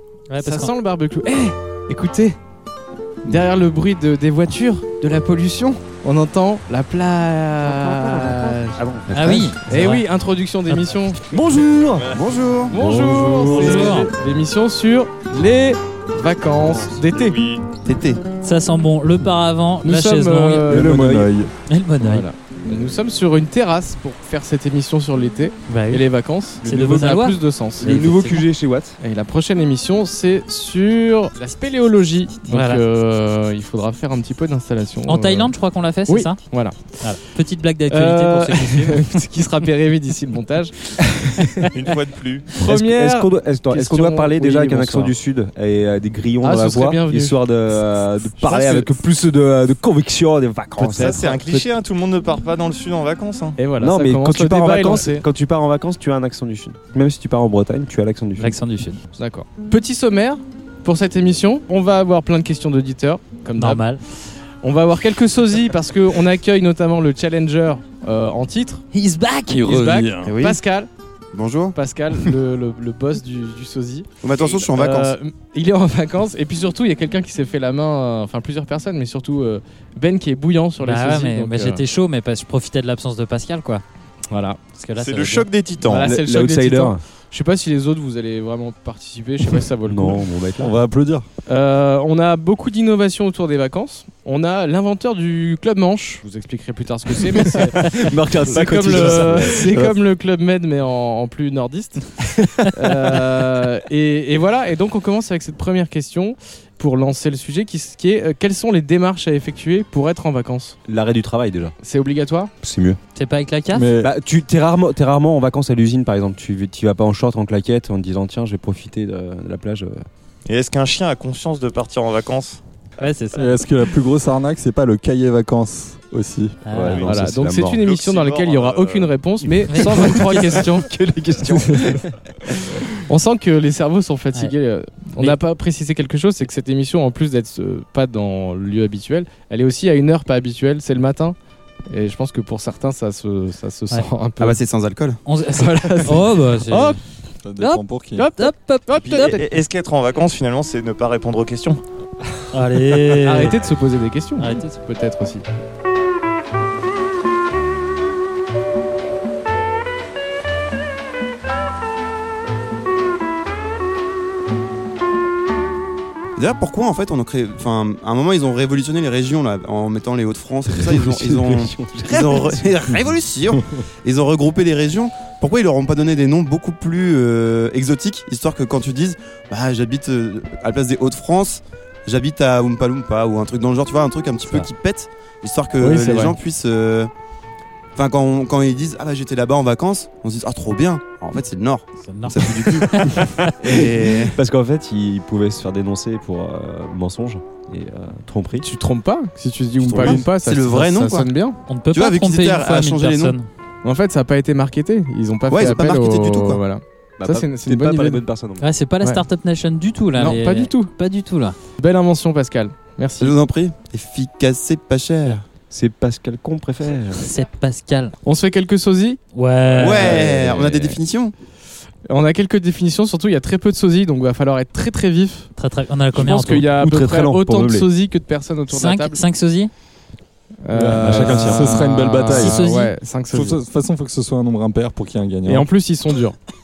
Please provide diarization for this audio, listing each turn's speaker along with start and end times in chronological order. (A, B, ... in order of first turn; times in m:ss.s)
0:00.3-0:00.7 A
0:00.4-0:02.4 B
0:03.3-0:11.2 B
0:08.8-0:09.5 C
0:09.1-0:10.1 A
0:11.3-0:12.2 C
0:12.1-0:12.8 D
0:12.7-0:17.4 B
0:12.8-0:13.8 E
0:13.3-0:14.1 A
0:17.1-0:17.6 F
0:17.8-0:18.3 D
0:18.4-0:20.9 A
0:19.8-0:21.0 B
0:20.7-0:21.3 C
0:20.7-0:21.5 E
0:21.7-0:22.3 A
0:22.0-0:28.0 B
0:25.7-0:26.1 A
0:26.6-0:28.5 A
0:26.7-0:27.2 C
0:27.8-0:29.0 C
0:29.0-0:35.5 B
0:32.5-0:32.8 A
0:35.1-0:36.4 A
0:36.1-0:37.2 B
0:37.0-0:39.1 A
0:37.9-0:41.7 B
0:41.7-0:42.5 F
0:42.6-0:51.7 C
0:42.6-0:45.1 B
0:46.4-0:47.4 B
0:48.4-0:48.9 B
0:50.8-0:53.6 F
0:53.6-0:55.3 B
0:53.8-0:58.6 C
0:58.4-0:59.0 A
0:59.2-1:03.9 B
1:03.6-1:04.0 A
1:04.6-1:08.8 B
1:08.9-1:09.6 A
1:09.5-1:10.4 E
1:09.6-1:10.9 B
1:10.2-1:10.6 D
1:11.3-1:11.8 D
1:11.7-1:21.8 B
1:14.2-1:15.2 D
1:20.8-1:23.8 A
1:24.3-1:24.6 B
1:24.8-1:25.5 A
1:25.0-1:26.1 F
1:25.9-1:27.0 C
1:25.9-1:30.2 B
1:29.9-1:30.7 C
1:30.6-1:31.2 E
1:31.5-1:50.8 B
1:37.9-1:39.9 C
1:50.9-1:51.7 C
1:51.8-1:52.5 B
1:52.6-1:53.0 C
1:53.2-1:54.0 A
1:53.7-1:54.1 E
1:54.0-2:00.0 C
2:00.5-2:02.6 F
2:03.0-2:03.5 A
2:03.3-2:06.6 E
2:06.6-2:07.0 A
2:06.7-2:07.8 C
2:07.0-2:10.9 B
2:07.7-2:09.2 F
2:09.5-2:12.2 C
2:09.7-2:10.6 A
2:11.5-2:12.1 B
2:13.0-2:21.4 B
2:21.9-2:24.6 B
2:24.4-2:25.2 D
2:25.2-2:27.0 A
2:25.6-2:27.0 B
2:27.4-2:28.3 E
2:28.2-2:29.5 B
2:28.4-2:29.2 A
2:29.1-2:29.3 C
2:29.2-2:31.8 F
2:32.5-2:33.6 A
2:33.2-2:35.4 B
2:34.4-2:34.7 A
2:46.4-3:07.1 D
2:50.7-2:52.6 C
3:05.8-3:06.4 B
3:08.0-3:14.4 D
3:12.0-3:13.6 A
3:14.3-3:18.7 C
3:18.6-3:21.6 B
3:19.8-3:21.3 D
3:20.0-3:20.2 C
3:21.7-3:23.5 A
3:21.9-3:23.4 D
3:23.8-3:28.2 B
3:25.5-3:26.6 D
3:27.2-3:28.7 C
3:28.6-3:31.6 A
3:30.1-3:30.9 B
3:31.8-3:33.3 B
3:33.2-3:35.4 D
3:35.7-3:37.3 C
3:37.2-3:38.1 A
3:38.2-3:39.2 B
3:39.3-3:40.3 A
3:39.7-3:41.3 D
3:39.8-3:41.0 C
3:42.1-3:45.5 B
3:45.6-3:46.8 A
3:46.2-3:47.9 C
3:46.2-3:49.2 B
3:48.7-3:49.7 A
3:50.6-3:53.6 B
3:50.7-3:52.6 E
3:51.0-3:51.8 C
3:52.3-3:52.9 A
3:53.3-3:55.7 E
3:55.5-3:56.4 B